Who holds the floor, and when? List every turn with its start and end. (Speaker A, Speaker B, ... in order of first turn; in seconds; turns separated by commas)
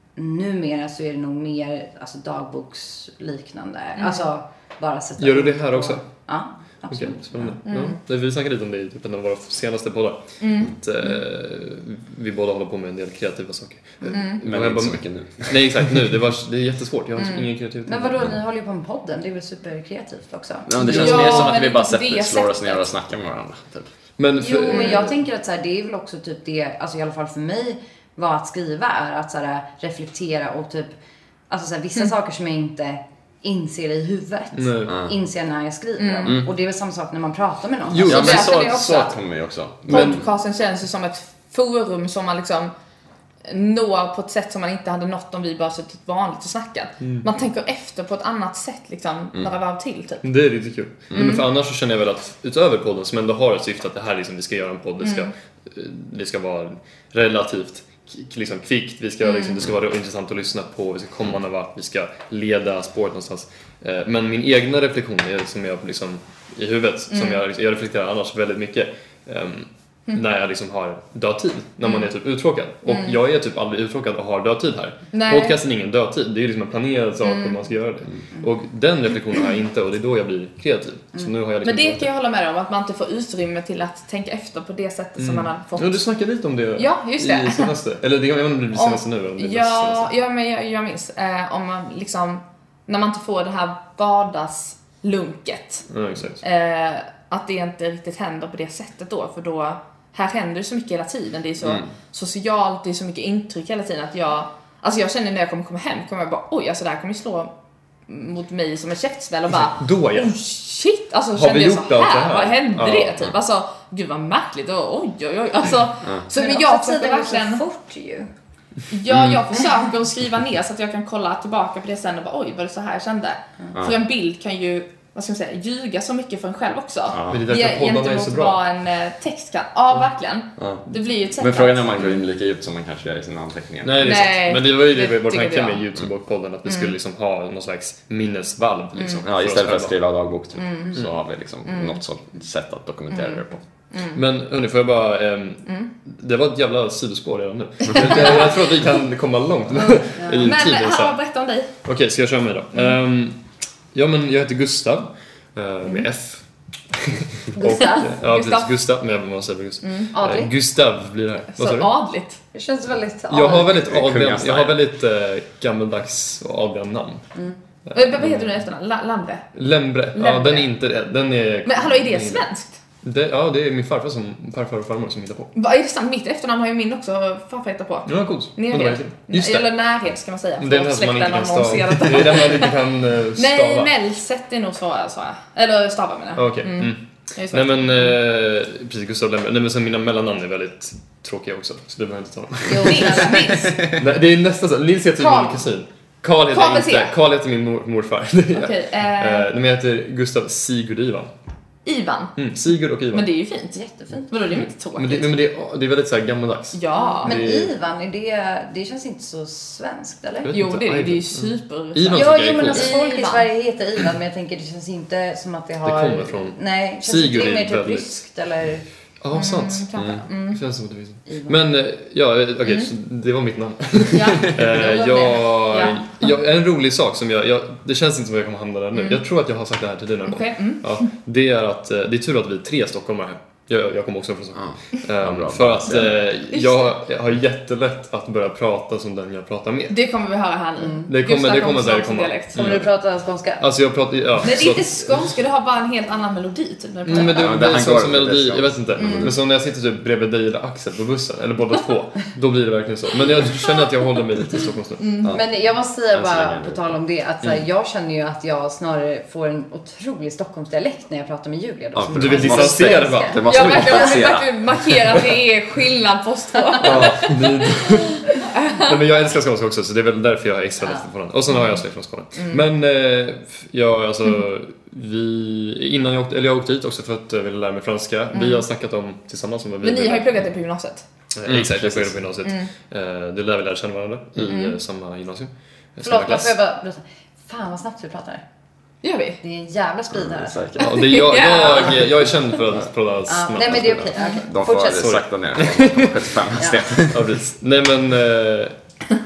Speaker A: 0.2-7.6, Speaker B: 4.0-4.3, Speaker C: 5.2-6.1, Speaker C: 6.9-18.4, Speaker B: 7.7-8.0, Speaker B: 10.4-10.7, Speaker B: 14.1-14.4, Speaker D: 14.4-16.0, Speaker A: 17.9-21.4, Speaker D: 20.7-23.9, Speaker B: 20.8-22.9, Speaker C: 20.9-21.2, Speaker C: 24.2-25.2, Speaker A: 24.4-30.9, Speaker A: 31.5-38.6, Speaker C: 34.5-35.0, Speaker D: 34.9-35.1, Speaker B: 36.0-36.4, Speaker C: 37.9-38.5, Speaker D: 38.0-40.2, Speaker B: 38.0-39.2, Speaker B: 39.9-42.7, Speaker B: 43.5-50.2, Speaker C: 47.0-47.3, Speaker C: 50.2-82.1, Speaker D: 51.1-51.4, Speaker B: 51.1-51.4, Speaker B: 55.0-55.3, Speaker B: 59.2-59.7, Speaker B: 67.1-67.4, Speaker B: 72.9-73.2, Speaker B: 75.1-75.6, Speaker B: 77.2-77.7, Speaker B: 81.6-86.0, Speaker C: 85.2-90.1, Speaker B: 86.8-87.7, Speaker B: 88.7-95.8, Speaker C: 95.9-96.4, Speaker B: 96.4-107.5, Speaker D: 101.6-101.9, Speaker B: 108.1-117.6, Speaker C: 109.6-110.4, Speaker C: 111.3-113.2, Speaker A: 116.3-118.3, Speaker B: 118.9-132.2, Speaker D: 127.1-127.4, Speaker C: 127.3-128.6, Speaker D: 130.6-130.9, Speaker D: 131.4-134.1, Speaker C: 133.8-139.9, Speaker B: 134.0-135.9, Speaker D: 139.2-143.6, Speaker B: 140.6-141.0, Speaker B: 141.6-142.0, Speaker B: 143.9-144.2, Speaker C: 144.1-151.2, Speaker B: 147.9-148.8, Speaker A: 150.1-150.5, Speaker B: 150.4-151.7, Speaker C: 151.8-156.4, Speaker C: 156.9-161.9, Speaker A: 157.6-158.1, Speaker B: 157.7-158.7, Speaker B: 159.8-160.1, Speaker A: 160.1-160.5, Speaker B: 161.6-162.4, Speaker A: 162.5-163.9, Speaker C: 163.3-167.2, Speaker D: 163.7-164.8, Speaker A: 167.3-167.6, Speaker C: 167.9-168.6, Speaker B: 167.9-169.5, Speaker C: 169.6-172.4, Speaker B: 170.1-170.7, Speaker B: 171.6-172.7, Speaker C: 173.0-175.5, Speaker B: 175.6-182.8, Speaker C: 178.1-179.7, Speaker C: 180.6-183.9, Speaker B: 183.4-187.9, Speaker C: 186.4-193.2, Speaker A: 192.7-193.8, Speaker B: 192.8-193.7, Speaker D: 193.6-194.0, Speaker C: 194.0-201.3, Speaker B: 195.2-195.6, Speaker B: 196.5-197.1, Speaker B: 198.6-199.5, Speaker B: 201.8-202.4, Speaker C: 202.4-203.3, Speaker B: 203.1-205.4, Speaker A: 203.8-204.3, Speaker C: 204.5-207.7, Speaker B: 206.7-207.4, Speaker A: 206.9-210.5, Speaker C: 210.4-212.9, Speaker B: 210.5-213.5, Speaker A: 212.1-218.9, Speaker C: 215.8-218.2, Speaker C: 219.2-239.9, Speaker B: 219.3-220.6, Speaker D: 220.0-220.2, Speaker A: 221.3-221.6, Speaker B: 222.6-222.9, Speaker B: 224.1-226.0, Speaker A: 224.7-225.5, Speaker B: 228.9-229.2, Speaker B: 230.3-231.0, Speaker D: 234.6-236.2, Speaker B: 236.6-236.8, Speaker B: 239.9-242.6, Speaker A: 240.8-241.1, Speaker C: 241.1-242.9, Speaker A: 242.6-243.6, Speaker C: 243.6-245.2, Speaker B: 244.4-247.6, Speaker C: 247.0-255.2, Speaker D: 247.2-249.3, Speaker B: 249.0-249.3, Speaker B: 255.0-255.4, Speaker D: 255.2-255.5, Speaker A: 255.3-264.2, Speaker D: 256.1-256.9, Speaker D: 261.9-264.6, Speaker C: 262.1-263.6, Speaker B: 263.4-268.9, Speaker C: 266.8-280.4, Speaker B: 272.4-272.6, Speaker B: 278.3-278.6, Speaker B: 279.8-281.1, Speaker C: 281.3-286.6, Speaker D: 281.5-282.2, Speaker B: 282.4-282.7, Speaker B: 284.4-284.8, Speaker A: 286.0-288.4, Speaker B: 289.0-289.4, Speaker A: 289.4-290.8, Speaker D: 290.2-290.8, Speaker C: 290.8-294.1, Speaker B: 290.9-292.1, Speaker A: 293.3-295.2, Speaker D: 294.3-297.3, Speaker C: 294.9-296.4, Speaker A: 296.6-296.9, Speaker C: 297.1-298.8